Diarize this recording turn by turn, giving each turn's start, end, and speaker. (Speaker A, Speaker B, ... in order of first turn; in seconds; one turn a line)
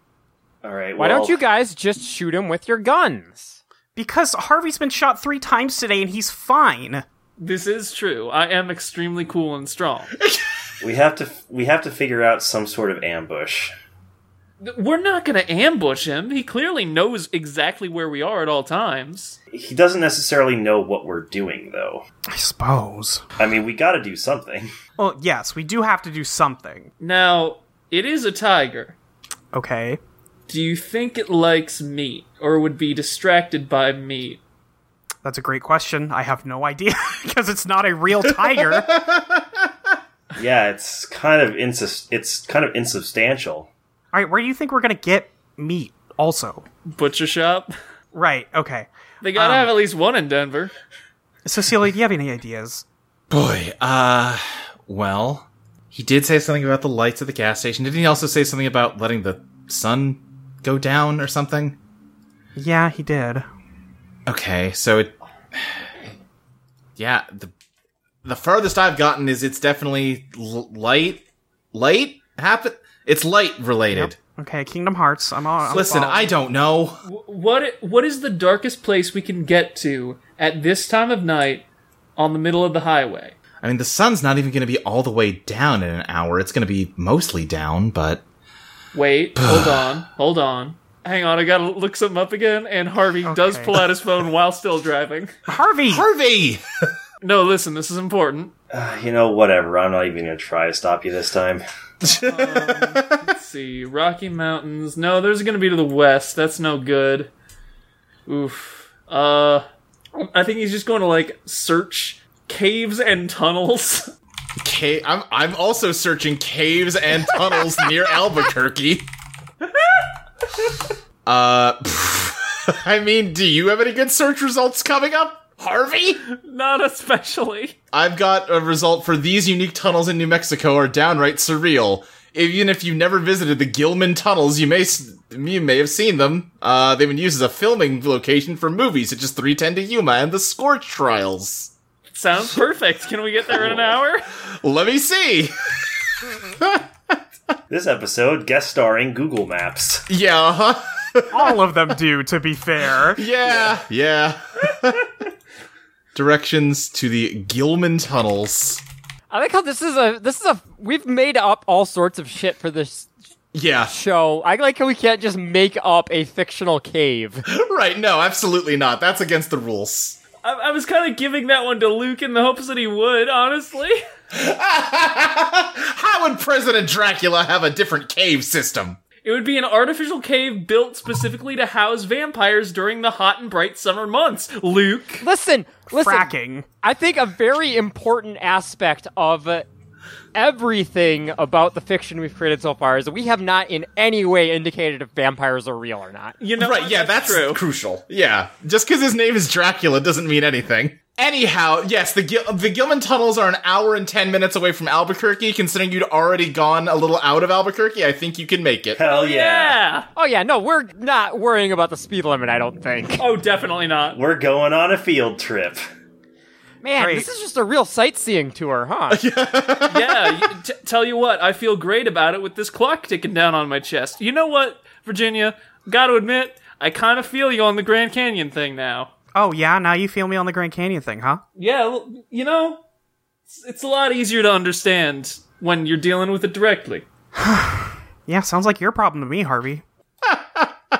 Speaker A: 0.6-1.4
Speaker B: 1.0-3.6
Speaker C: 4.0-7.0
Speaker D: 7.4-10.1
Speaker A: 10.8-13.7
Speaker D: 14.6-19.4
Speaker A: 19.5-22.1
Speaker C: 22.3-23.2
Speaker A: 23.4-24.7
Speaker C: 25.0-26.9
Speaker D: 27.0-29.0
Speaker C: 29.5-30.0
Speaker D: 30.5-34.4
Speaker C: 35.2-38.9
Speaker E: 38.9-39.5
Speaker A: 40.4-43.7
Speaker C: 44.1-46.6
Speaker D: 46.9-47.7
Speaker C: 48.1-49.7
Speaker D: 49.2-50.7
Speaker C: 51.5-52.8
Speaker E: 53.3-61.8
Speaker C: 62.6-63.5
Speaker E: 64.3-65.7
Speaker E: 67.0-67.5
Speaker E: 68.2-74.2
Speaker C: 73.9-76.3
Speaker E: 75.7-77.0
Speaker D: 77.0-81.7
Speaker D: 82.2-83.3
Speaker E: 83.6-88.2
Speaker D: 88.9-95.3
Speaker E: 89.4-89.8
Speaker C: 93.2-93.7
Speaker C: 95.5-96.1
Speaker E: 95.9-96.6
Speaker D: 97.2-98.5
Speaker A: 98.7-101.6
Speaker E: 102.0-103.2
Speaker D: 102.2-107.3
Speaker D: 108.3-114.1
Speaker E: 114.6-119.0
Speaker E: 121.3-126.2
Speaker D: 126.3-127.8
Speaker E: 127.9-141.7
Speaker D: 142.1-144.3
Speaker E: 144.6-145.8
Speaker E: 146.3-146.8
Speaker A: 147.7-150.1
Speaker E: 150.1-151.6
Speaker C: 151.3-153.2
Speaker E: 153.2-155.1
Speaker E: 156.2-158.8
Speaker B: 159.3-163.1
Speaker E: 163.5-163.9
Speaker B: 163.9-167.4
Speaker E: 167.5-170.2
Speaker D: 170.4-174.0
Speaker E: 174.3-179.0
Speaker D: 179.2-185.2
Speaker B: 185.2-189.7
Speaker C: 185.9-186.7
Speaker B: 190.3-196.4
Speaker D: 196.4-197.6
Speaker E: 196.6-209.0
Speaker A: 208.9-209.8
Speaker D: 209.0-210.1
Speaker B: 210.2-213.2
Speaker D: 213.2-214.2
Speaker A: 214.1-215.8
Speaker B: 216.8-219.2
Speaker C: 217.0-217.3
Speaker E: 219.1-220.5
Speaker D: 219.9-229.1
Speaker C: 229.3-231.4
Speaker D: 231.6-232.8
Speaker D: 233.5-237.1
Speaker C: 237.4-239.8
Speaker E: 240.3-240.7